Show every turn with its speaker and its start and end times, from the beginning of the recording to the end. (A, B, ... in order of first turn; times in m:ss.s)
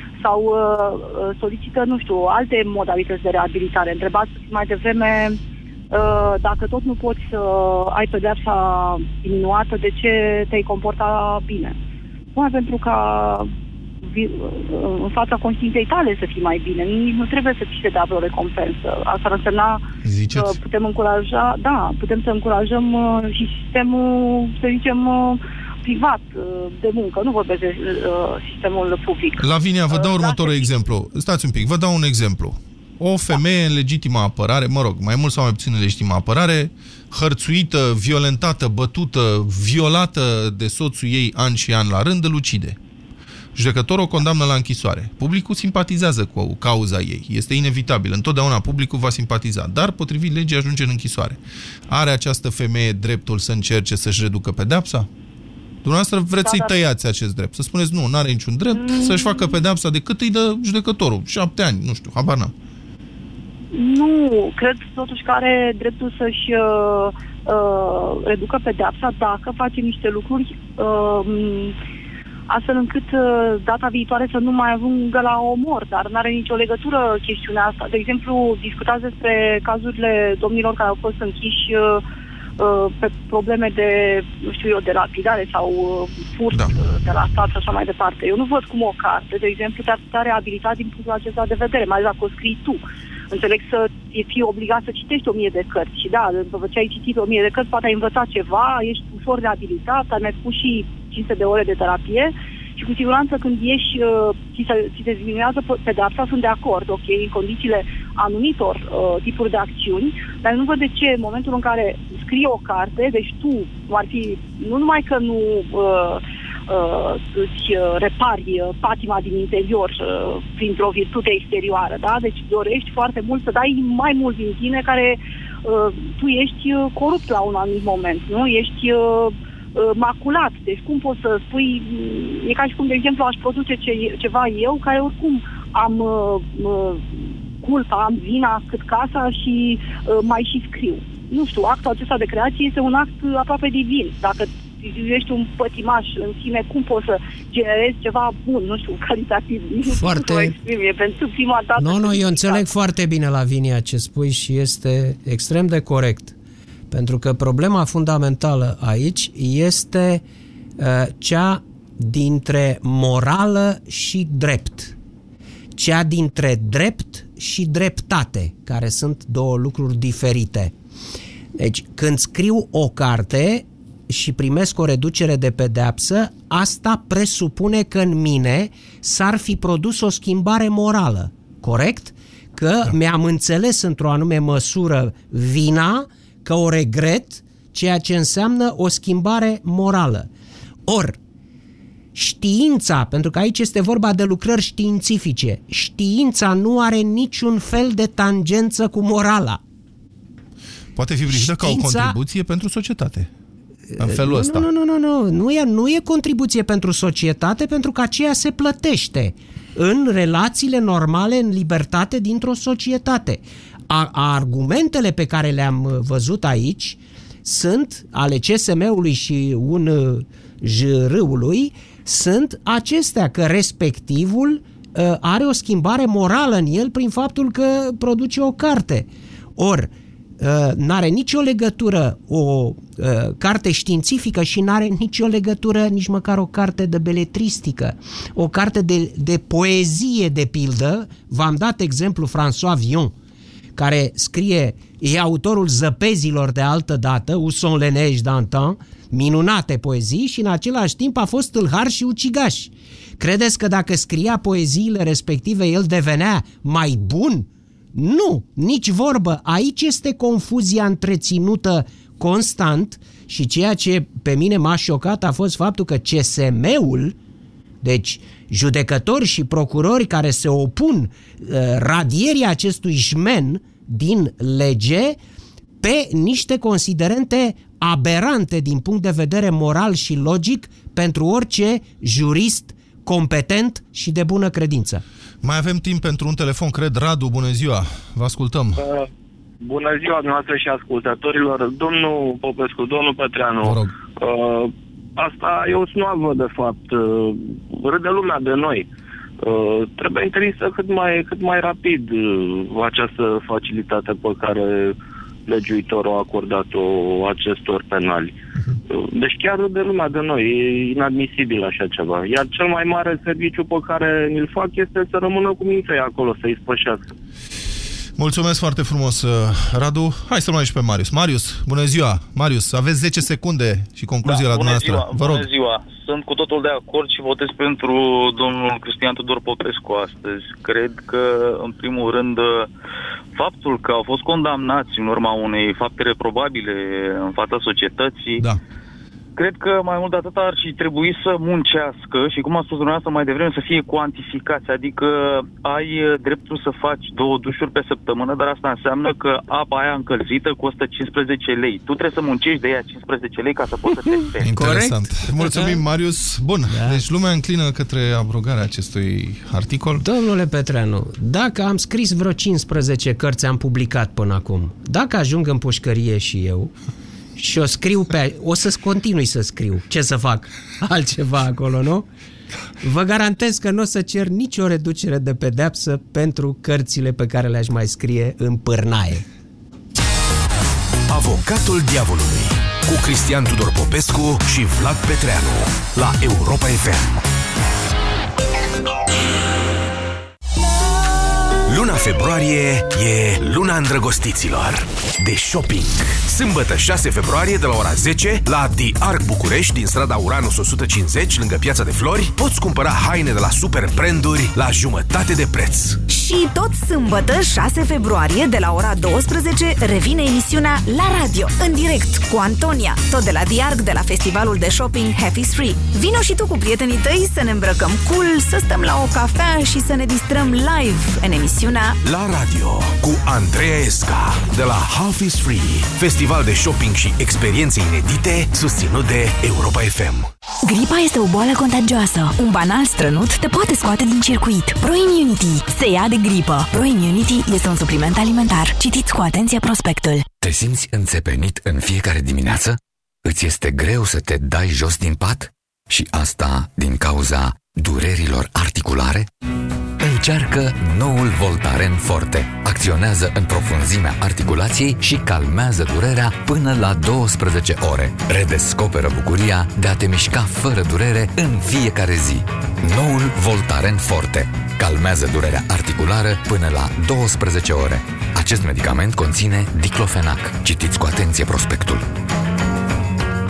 0:00.2-0:05.4 A
0:05.9-0:11.8 A
0:12.3-0:13.5 A
0:14.0-0:30.9 A
0:20.0-0:20.5 B
0:29.4-0:42.8 B
0:43.5-0:55.1 B
0:55.8-1:02.5 B
0:56.4-0:56.7 A
0:58.7-0:59.6 A
1:03.7-1:11.7 A
1:12.5-1:22.0 A
1:22.6-2:32.6 A
2:29.9-2:30.5 C
2:31.8-2:36.3 C
2:36.9-2:40.2 C
2:40.8-2:44.9 C
2:45.7-2:50.7 C
2:51.6-3:10.3 C
3:10.9-3:11.2 C
3:12.1-3:19.6 C
3:21.0-3:23.3 B
3:21.3-3:22.2 C
3:23.9-4:03.1 C
3:24.0-3:24.7 B
4:03.7-4:27.1 C
4:27.8-4:35.2 C
4:35.8-4:45.0 C
4:45.4-4:48.8 B
4:48.8-4:49.1 D
4:49.6-4:58.9 D
4:53.6-4:53.9 B
4:59.4-5:05.0 D
5:05.5-5:08.4 D
5:08.9-5:17.1 D
5:18.2-5:25.5 B
5:24.2-5:32.7 E
5:33.4-5:38.4 E
5:39.4-5:54.5 E
5:54.4-5:55.8 C
5:54.4-6:00.0 B
5:56.7-5:57.0 C
6:00.0-6:06.7 C
6:07.4-6:12.1 C
6:12.8-6:19.2 C
6:21.1-6:27.2 F
6:31.7-6:46.0 F
6:46.1-7:02.0 G
7:02.0-7:10.3 F
7:10.6-7:20.3 G
7:20.4-7:29.3 H
7:30.0-7:52.0 H